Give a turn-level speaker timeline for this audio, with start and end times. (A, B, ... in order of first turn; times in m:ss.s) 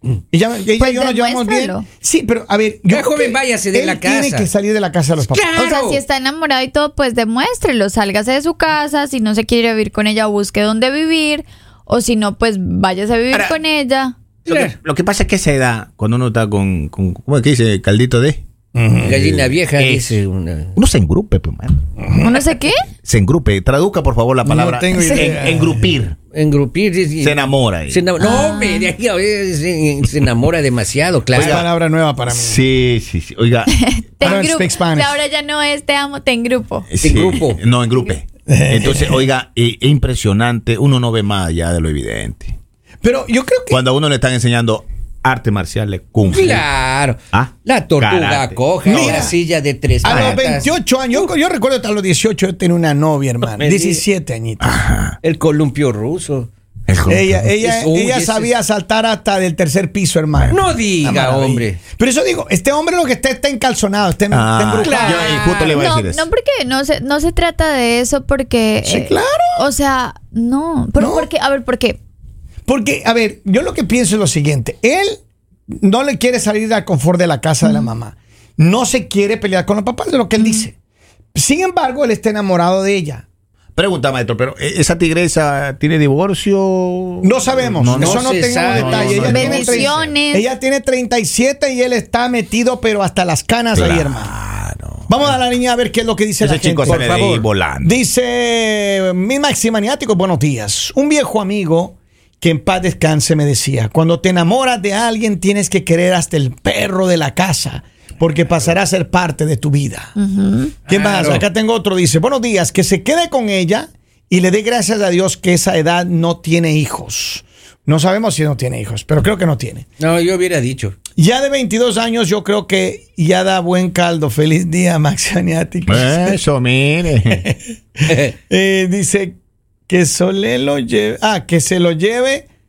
0:00.3-0:05.6 A
0:00.8-0:01.9 B
0:02.9-0:04.5 C
0:05.2-0:06.0 C
0:05.6-0:14.1 B
0:14.5-0:14.7 C
0:14.5-0:18.4 D
0:18.8-0:19.2 A
0:19.0-0:20.8 C
0:19.1-0:20.2 D
0:20.8-0:21.8 D
0:22.0-0:22.4 A
0:22.2-0:22.8 B
0:23.0-0:26.2 D
0:24.4-0:25.9 A
0:25.0-0:25.3 B
0:26.3-0:31.6 C
0:27.2-0:28.0 D
0:28.2-0:28.9 B
0:31.3-0:31.6 D
0:31.4-0:32.6 A
0:32.3-0:34.4 D
0:33.7-0:36.9 B
0:34.2-0:35.2 A
0:36.9-0:42.5 D
0:37.0-0:37.6 C
0:38.5-0:39.3 A
0:43.0-0:43.8 A
0:43.7-0:46.6 D
0:46.3-0:51.3 C
0:47.3-0:49.3 D
0:48.9-0:49.4 A
0:50.0-0:54.8 A
0:50.1-0:50.4 D
0:53.5-0:54.0 C
0:54.6-0:55.2 D
0:55.2-0:56.5 C
0:56.9-0:57.5 D
0:57.1-1:05.4 A
0:57.6-0:58.5 C
1:00.5-1:01.8 C
1:04.3-1:06.3 D
1:04.8-1:05.8 C
1:05.4-1:12.0 B
1:08.8-1:09.6 A
1:11.0-1:11.3 A
1:12.7-1:15.2 A
1:15.8-1:20.7 A
1:17.6-1:17.9 B
1:20.4-1:20.7 B
1:21.4-1:23.2 A
1:23.8-1:30.1 D
1:27.2-1:34.3 A
1:27.9-1:29.4 C
1:29.2-1:30.4 B
1:33.7-1:35.3 D
1:35.1-1:37.1 A
1:36.4-1:38.0 D
1:36.9-1:37.4 C
1:37.8-1:50.2 A
1:50.2-1:50.8 B
1:50.9-1:59.9 A
1:50.9-1:51.5 C
2:00.0-2:01.0 C
2:01.2-2:06.4 A
2:05.9-2:07.4 D
2:08.1-2:08.4 C
2:08.5-2:12.5 A